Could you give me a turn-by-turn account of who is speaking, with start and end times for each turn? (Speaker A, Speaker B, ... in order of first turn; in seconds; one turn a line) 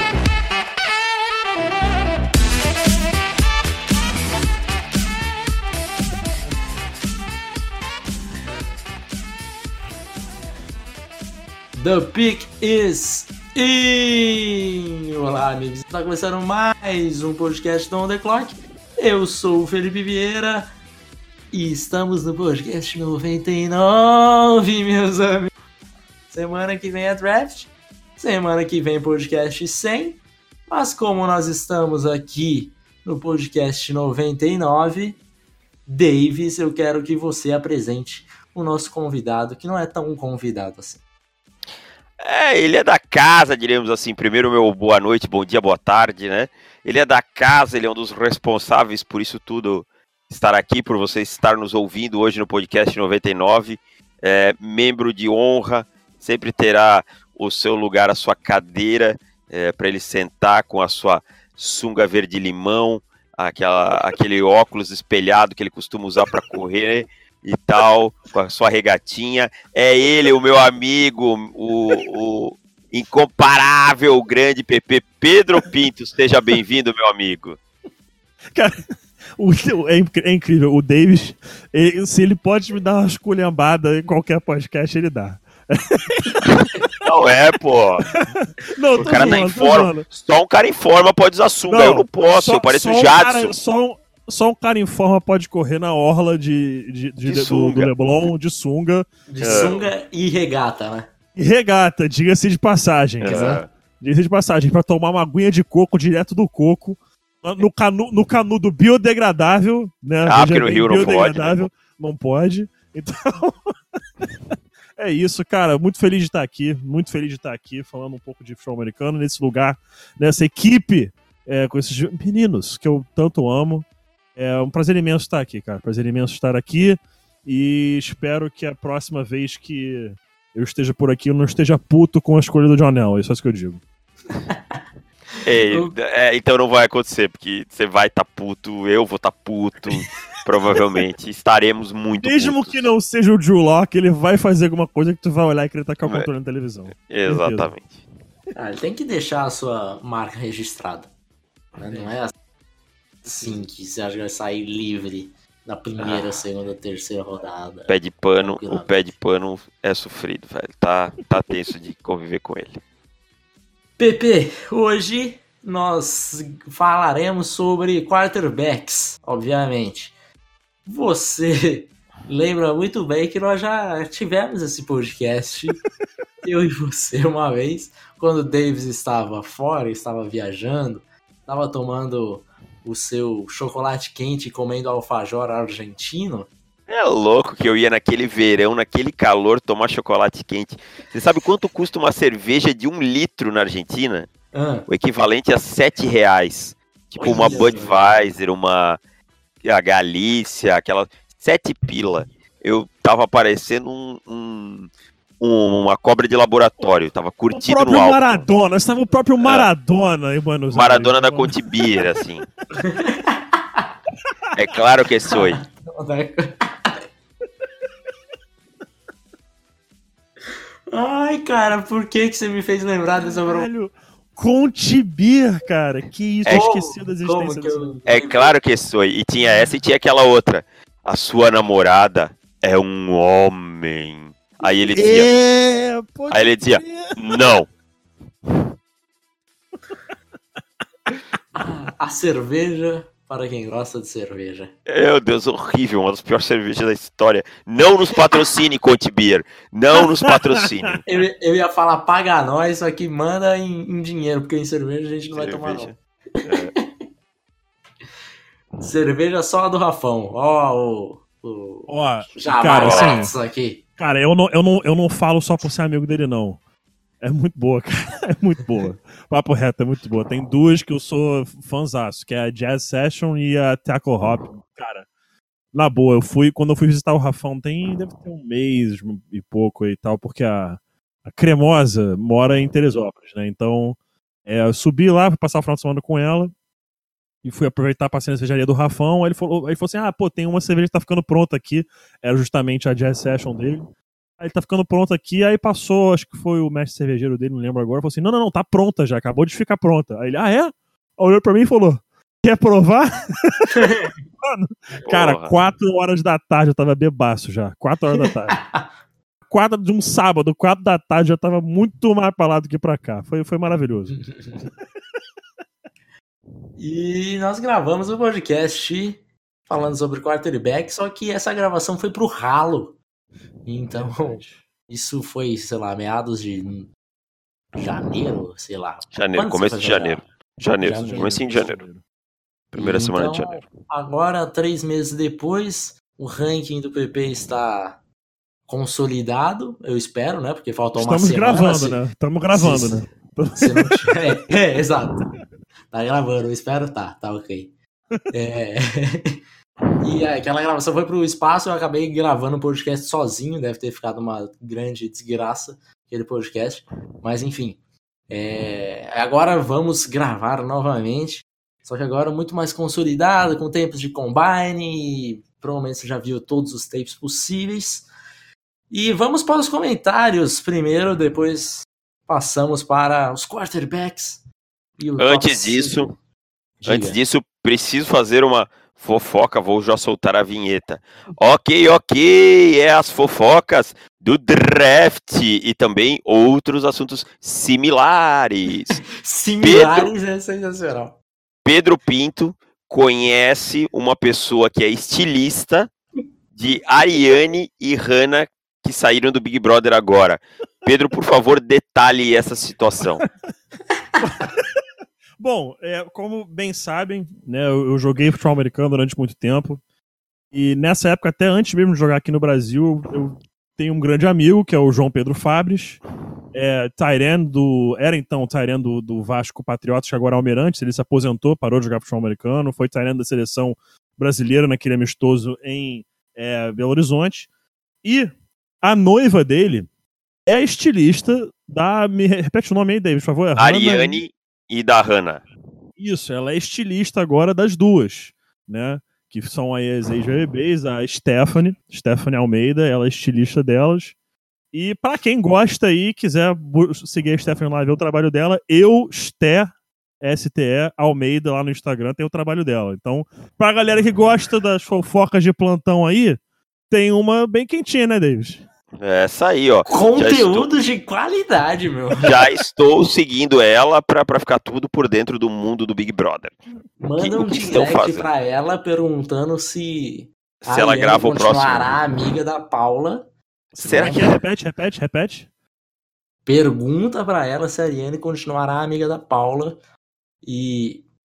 Speaker A: 11.7-20.7
Speaker A: 21.5-25.5
Speaker A: 26.3-35.2
Speaker A: 35.9-41.0
Speaker B: 42.2-77.6
Speaker C: 79.4-86.7
Speaker B: 87.0-88.1
Speaker C: 88.1-90.0
Speaker B: 89.0-93.5
Speaker C: 91.7-99.8
Speaker B: 97.2-97.9
Speaker A: 99.3-101.1
Speaker B: 99.4-99.8
Speaker C: 101.3-114.3
Speaker B: 103.2-103.7
Speaker A: 103.2-103.6
Speaker B: 110.2-111.7
Speaker C: 115.0-133.8
Speaker B: 135.4-142.8
Speaker A: 135.6-135.9
Speaker C: 142.2-147.7
Speaker B: 146.9-148.0
Speaker A: 148.5-151.1
Speaker A: 151.8-152.3
Speaker A: 153.2-158.9
Speaker B: 156.0-156.4
Speaker B: 157.9-162.8
Speaker A: 164.0-170.2
Speaker A: 170.8-175.8
Speaker A: 176.4-186.5
Speaker B: 186.9-194.3
Speaker A: 194.5-194.9
Speaker B: 194.9-199.0
Speaker A: 197.2-198.1
Speaker C: 197.2-197.9
Speaker B: 199.6-204.9
Speaker B: 205.4-208.4
Speaker C: 207.5-212.1
Speaker B: 209.4-209.7
Speaker B: 210.7-212.5
Speaker A: 212.8-213.9
Speaker B: 214.5-215.6
Speaker A: 215.2-217.0
Speaker A: 220.9-223.7
Speaker C: 223.2-227.9
Speaker A: 226.5-228.5
Speaker B: 228.1-235.3
Speaker C: 234.9-237.5
Speaker B: 236.3-237.7
Speaker A: 241.5-244.7
Speaker B: 244.9-251.0
Speaker A: 251.1-256.9
Speaker B: 255.3-256.7
Speaker A: 258.8-263.8
Speaker C: 261.9-263.3
Speaker B: 262.8-263.2
Speaker C: 264.0-266.6
Speaker C: 267.2-275.1
Speaker C: 275.7-286.5
Speaker C: 287.4-303.8
Speaker A: 303.7-304.1
Speaker C: 304.4-308.6
Speaker B: 305.1-305.5
Speaker A: 308.5-308.9
Speaker C: 309.5-314.2
Speaker A: 314.1-314.6
Speaker A: 316.8-323.0
Speaker A: 323.6-326.9
Speaker C: 323.9-324.6
Speaker A: 327.7-330.2
Speaker B: 329.1-331.8
Speaker A: 330.8-331.3
Speaker C: 330.9-332.0
Speaker B: 332.7-333.7
Speaker A: 332.8-338.0
Speaker A: 338.7-342.0
Speaker C: 340.9-344.2
Speaker A: 342.5-345.3
Speaker A: 345.9-347.7
Speaker A: 348.3-349.4
Speaker A: 350.0-368.1
Speaker A: 368.9-374.4
Speaker A: 375.0-376.1
Speaker B: 375.2-376.1
Speaker A: 376.8-377.2
Speaker B: 376.9-389.0
Speaker A: 389.2-391.2
Speaker B: 389.6-390.1
Speaker B: 391.6-395.9
Speaker B: 396.5-403.2
Speaker C: 404.2-404.8
Speaker C: 405.4-409.8
Speaker C: 410.5-416.0
Speaker C: 416.5-427.5
Speaker C: 428.0-429.9
Speaker C: 430.5-434.2
Speaker B: 433.6-435.4
Speaker C: 436.0-444.1
Speaker C: 444.7-456.4
Speaker C: 456.9-458.6
Speaker B: 459.0-460.7
Speaker A: 459.9-462.3
Speaker B: 462.2-466.5
Speaker A: 467.0-473.3
Speaker B: 467.2-468.3
Speaker B: 470.6-472.0
Speaker B: 473.8-474.4
Speaker C: 473.8-475.5
Speaker A: 473.8-474.4
Speaker A: 476.4-479.8
Speaker A: 480.4-481.0